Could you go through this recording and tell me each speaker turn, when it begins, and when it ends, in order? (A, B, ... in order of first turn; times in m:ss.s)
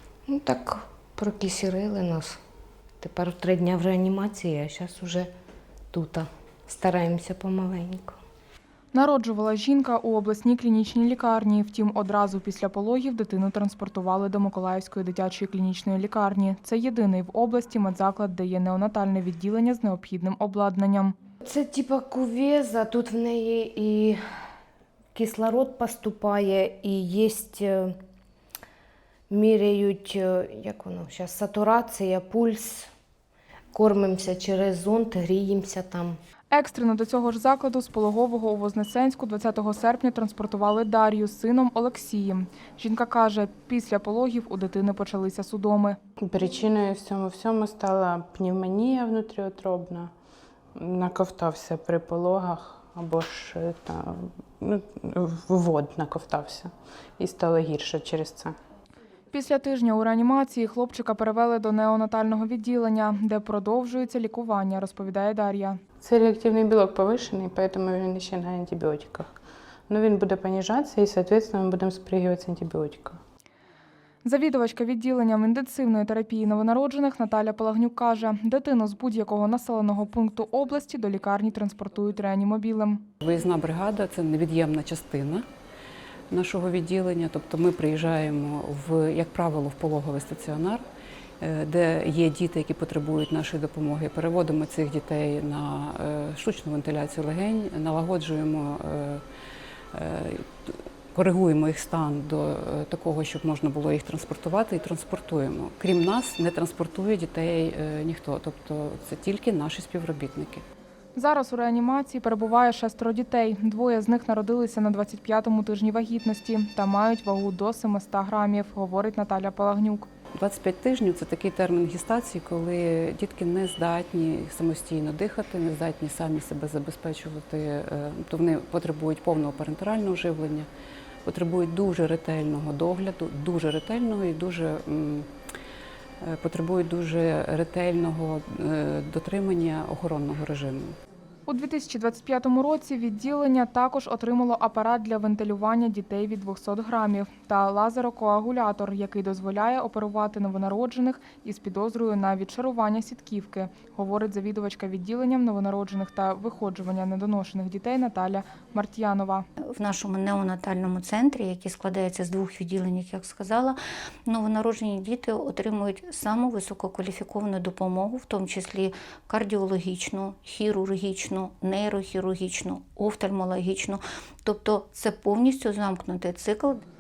0:00.3-0:02.4 A
0:03.0-0:05.3 A
0:05.9-0:08.2 A
0:08.9-0:21.1 B
0:21.4-0:24.2 A
0:25.1-0:28.0 A
0:29.3-0:32.9 A
0:33.7-0:36.2 A
0:36.5-0:46.0 B
0:46.3-0:50.1 C
0:50.8-0:58.6 C
0:59.3-1:05.8 B
1:06.0-1:09.3 C
1:09.9-1:13.2 C
1:14.2-1:23.0 B
1:23.2-1:25.4 D
1:26.3-1:30.8 D
1:31.4-1:39.2 D
1:39.9-1:50.6 D
1:51.2-2:00.1 B
2:00.3-2:10.7 D
2:11.2-2:15.3 D
2:16.2-2:21.0 D
2:21.5-2:39.4 B
2:39.7-2:56.8 E